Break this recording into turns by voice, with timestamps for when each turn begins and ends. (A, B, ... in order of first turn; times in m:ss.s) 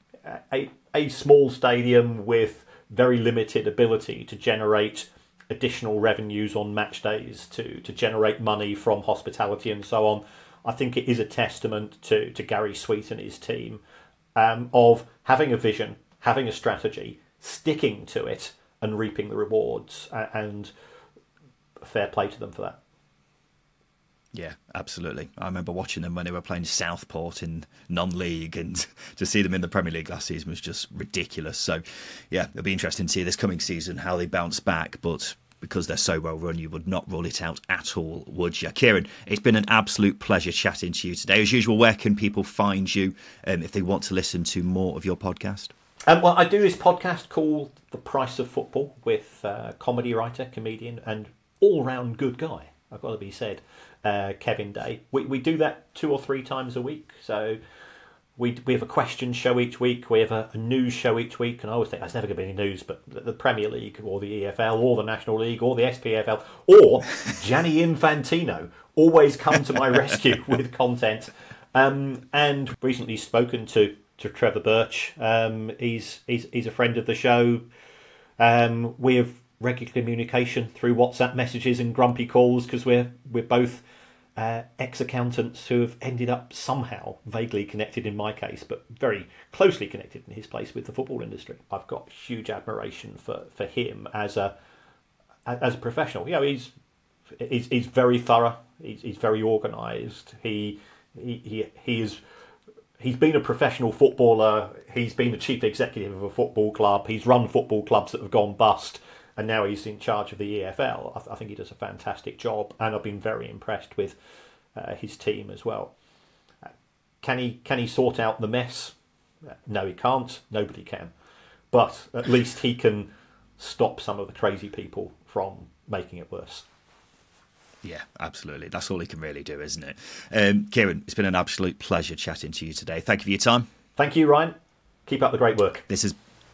0:00.2-0:13.8 A
0:14.3-0:20.7 A
0:21.8-0:22.8 A
0:24.3-0:45.7 B
0:46.1-0:57.6 A
0:58.4-1:17.7 A
1:18.4-1:23.8 A
1:24.4-1:34.5 A
1:35.4-1:36.7 A
1:37.4-1:42.2 A
1:43.0-1:54.2 A
1:54.7-1:55.9 A
1:57.2-2:01.1 A
2:01.7-2:06.6 A
2:07.8-2:13.7 B
2:14.0-2:15.8 A
2:15.9-2:16.2 B